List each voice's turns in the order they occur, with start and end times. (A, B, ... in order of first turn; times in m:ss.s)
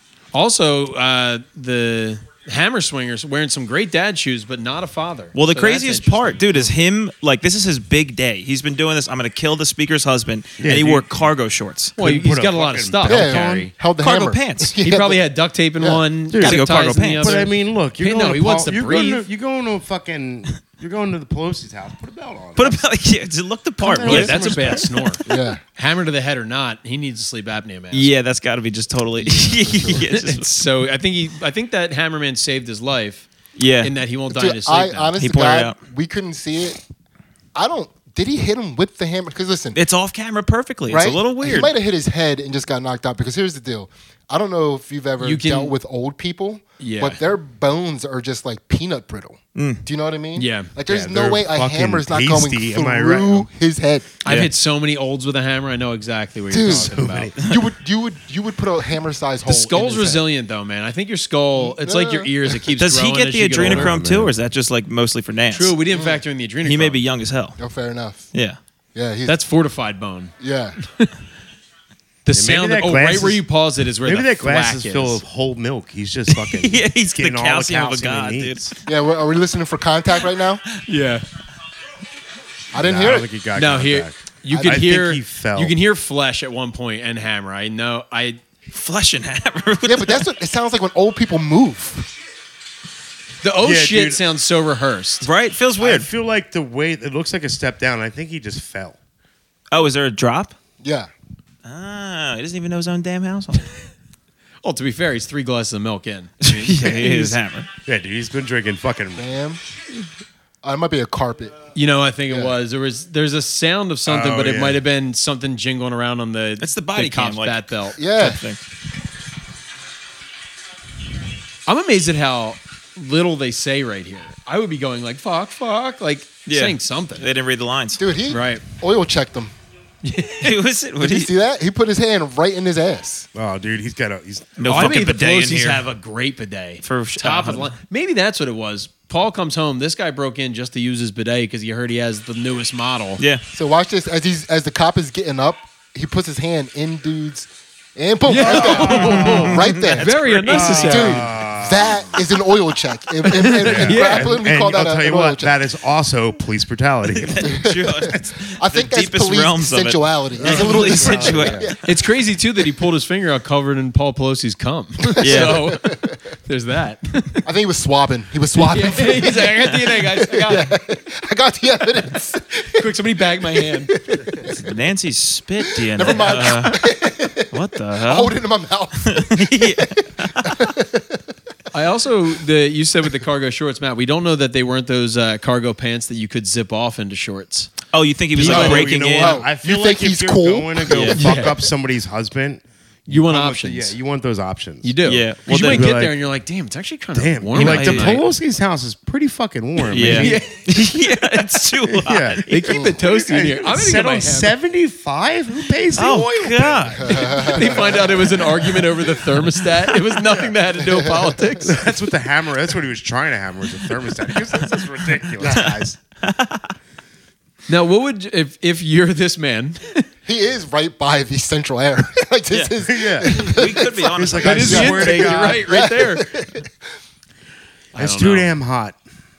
0:00.3-0:06.4 A
0:05.4-0:12.0 B
0:10.6-0:11.1 C
0:12.0-0:13.7 A
0:12.0-0:13.7 C
0:13.0-0:15.2 D
0:14.0-0:14.8 B
0:14.8-0:19.3 A
0:16.3-0:22.8 C
0:16.3-0:17.4 B
0:22.6-0:25.2 B
0:23.8-0:24.9 C
0:24.0-0:28.1 A
0:25.3-0:25.6 D
0:27.9-0:30.6 B
0:29.2-0:30.1 D
0:30.1-0:33.3 A
0:33.6-0:33.9 B
0:33.8-0:35.1 A
0:34.3-0:36.8 D
0:35.2-0:35.8 B
0:37.6-0:39.8 D
0:39.7-0:41.7 B
0:40.9-0:54.1 D
0:45.2-0:45.7 A
0:46.8-0:47.2 A
0:49.6-0:49.8 B
0:50.4-0:50.7 A
0:50.9-0:53.5 C
0:54.2-0:57.3 A
0:56.5-1:00.2 D
0:56.6-0:57.4 C
0:59.5-1:04.0 A
1:01.6-1:02.3 D
1:02.8-1:05.8 B
1:03.6-1:04.3 C
1:05.5-1:07.0 A
1:05.9-1:06.2 D
1:06.6-1:07.6 B
1:07.6-1:08.3 D
1:09.0-1:09.4 D
1:09.3-1:11.1 A
1:10.4-1:10.8 D
1:12.2-1:15.2 A
1:12.3-1:13.4 C
1:14.0-1:18.6 C
1:16.3-1:18.8 B
1:18.9-1:20.6 D
1:20.8-1:21.2 A
1:22.7-1:23.3 D
1:22.7-1:25.8 C
1:23.5-1:28.4 A
1:24.5-1:24.8 D
1:28.7-1:30.3 B
1:29.9-1:32.1 D
1:33.4-1:35.3 A
1:33.6-1:34.2 C
1:35.2-1:36.1 B
1:35.8-1:39.0 C
1:39.7-1:40.6 B
1:40.8-1:41.1 D
1:41.6-1:43.7 B
1:44.6-1:47.4 A
1:46.4-1:47.7 B
1:47.8-1:49.3 C
1:49.2-1:49.6 D
1:50.6-1:51.6 D
1:51.7-1:58.2 A
1:54.1-1:54.8 C
1:56.6-1:58.6 B
1:58.0-1:58.4 D
2:01.7-2:07.3 A
2:06.5-2:08.0 B
2:08.0-2:09.5 D
2:08.3-2:08.6 A
2:10.0-2:10.6 A
2:10.4-2:11.3 B
2:11.0-2:13.3 D
2:13.4-2:14.9 C
2:14.6-2:15.8 B
2:14.6-2:23.2 A
2:16.8-2:17.7 B
2:23.5-2:30.2 D
2:28.3-2:31.3 A
2:28.5-2:29.6 C
2:28.5-2:31.2 B
2:30.5-2:32.2 C
2:30.8-2:35.5 D
2:33.2-2:34.4 A
2:33.6-2:37.5 C
2:37.2-2:41.7 B
2:37.4-2:42.0 D
2:40.4-2:41.7 C
2:41.8-2:45.9 A
2:45.0-2:46.2 D
2:45.2-2:45.8 B
2:46.5-2:47.4 A
2:47.4-2:54.6 D
2:48.6-2:50.7 A
2:52.7-2:53.9 A
2:54.5-2:56.8 B
2:55.7-3:01.2 D
2:57.5-2:58.4 B
2:59.0-3:00.7 B
3:01.7-3:07.8 A
3:07.9-3:09.4 B
3:08.4-3:11.1 D
3:08.4-3:15.0 C
3:08.5-3:08.8 A
3:10.9-3:11.2 B
3:11.2-3:11.6 A
3:13.1-3:14.0 A
3:14.8-3:18.2 A
3:15.1-3:16.0 B
3:15.7-3:16.2 C
3:17.2-3:20.4 C
3:17.6-3:18.2 B
3:19.9-3:22.8 B
3:19.9-3:20.7 A
3:21.8-3:27.8 C
3:22.5-3:24.5 A
3:26.0-3:27.6 B
3:27.0-3:28.4 D
3:27.4-3:31.7 A
3:30.3-3:30.5 C
3:30.9-3:31.6 D
3:31.6-3:36.0 C
3:35.4-3:35.8 D
3:35.5-3:36.7 B
3:37.7-3:40.1 A
3:40.2-3:46.7 D
3:42.5-3:44.9 B
3:42.8-3:45.7 C
3:44.4-3:46.3 A
3:47.9-3:48.6 A
3:48.0-3:49.0 C